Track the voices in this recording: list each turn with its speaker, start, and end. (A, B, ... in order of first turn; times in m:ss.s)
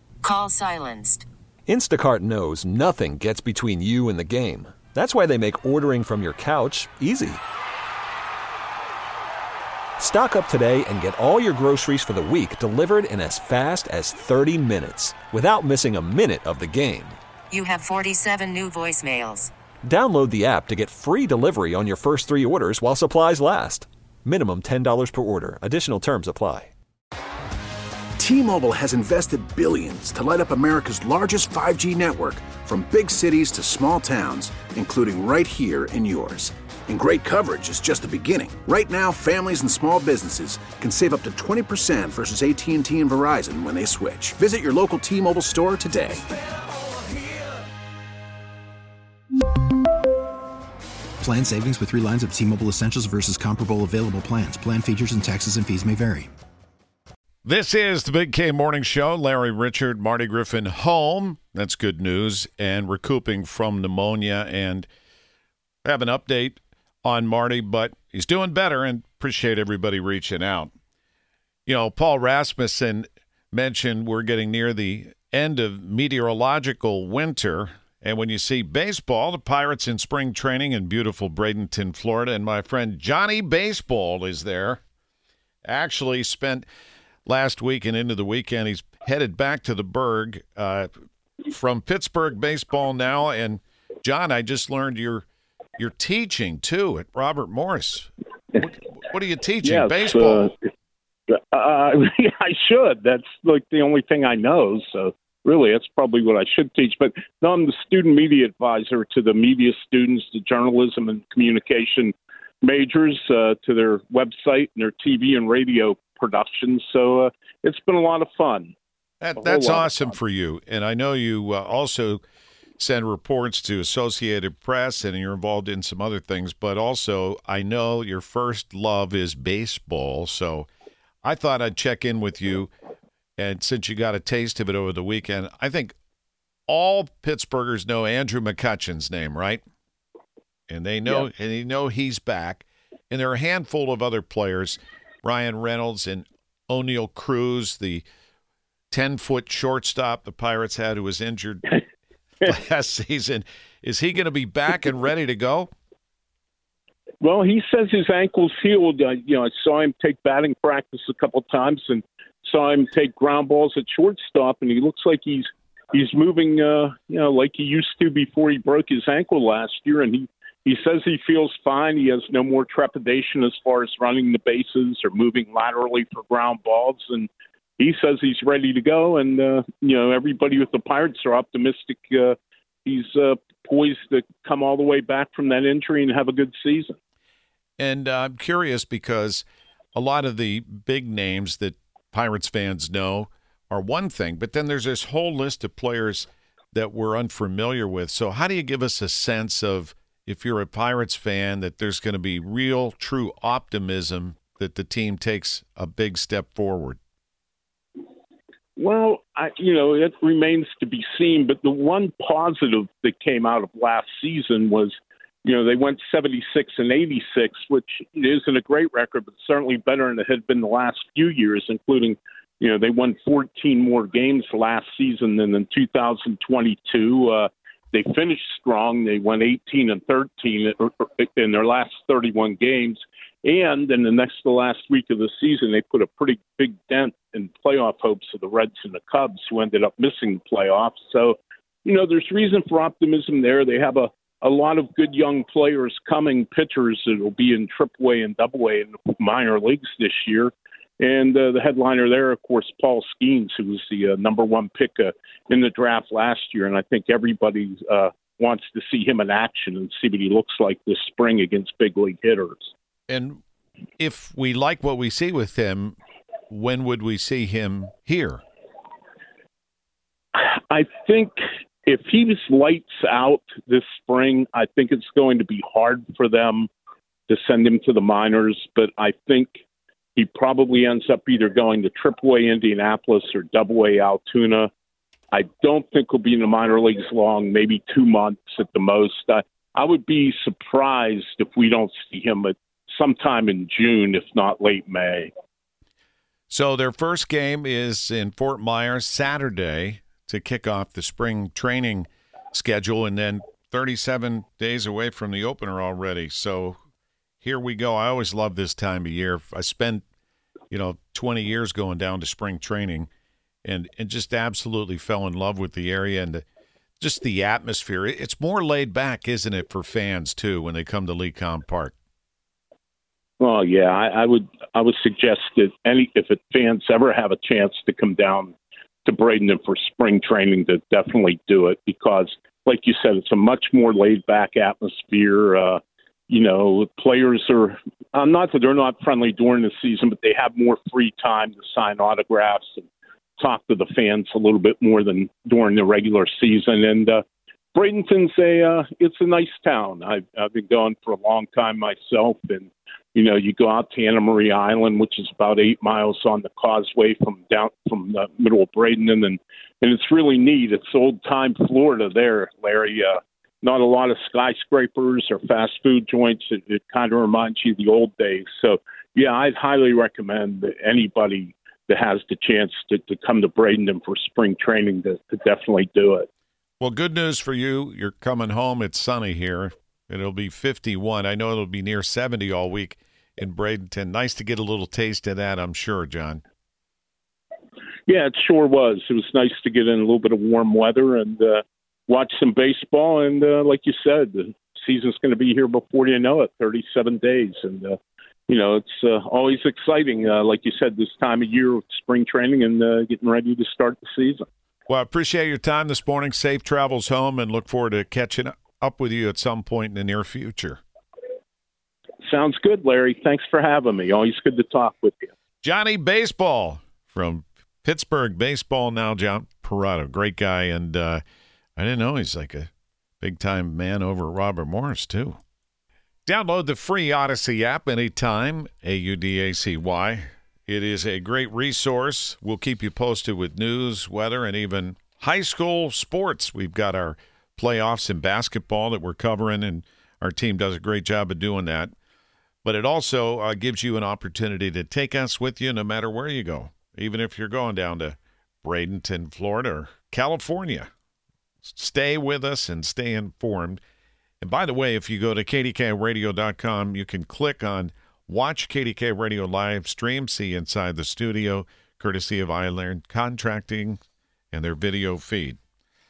0:00.2-0:01.2 A
0:01.7-0:07.4 B
0:10.0-0:17.2 B
0:17.5-0:19.5 A
0:19.8-0:26.7 B
0:28.2-0:46.2 C
0:51.2-0:56.3 D
0:57.4-1:04.9 E
1:05.8-1:10.7 E
1:11.6-1:24.8 E
1:25.6-1:26.6 E
1:27.2-1:30.9 E
1:31.5-1:35.2 E
1:35.8-1:40.5 E
1:39.6-1:40.5 F
1:41.3-1:58.7 F
1:59.2-2:02.2 E
1:59.4-2:00.1 F
2:02.8-2:10.7 E
2:11.2-2:12.7 E
2:13.4-2:15.9 E
2:16.7-2:19.6 E
2:20.7-2:28.0 E
2:28.9-2:31.8 E
2:32.4-2:35.7 E
2:37.2-3:07.0 F
3:07.8-3:27.0 E
3:28.8-4:22.7 F
4:23.1-4:23.4 E
4:24.0-4:26.0 E
4:26.5-4:28.4 E
4:30.4-4:36.7 F
4:37.3-4:39.6 F
4:40.1-4:44.7 F
4:45.3-4:55.3 F
4:56.5-5:06.8 E
5:07.4-5:10.0 E
5:10.7-5:13.1 E
5:13.6-5:16.4 E
5:17.0-5:21.9 E
5:23.4-5:47.2 F
5:47.7-6:16.3 F
6:16.8-6:26.4 E
6:28.1-6:44.4 F
6:44.9-6:50.8 E
6:52.2-6:55.3 F
6:55.6-7:01.2 E
7:01.8-7:02.7 E
7:03.2-7:05.4 E
7:06.2-7:21.9 E
7:22.6-7:30.9 E
7:31.6-7:33.8 E
7:34.4-7:44.0 E
7:44.5-7:45.6 E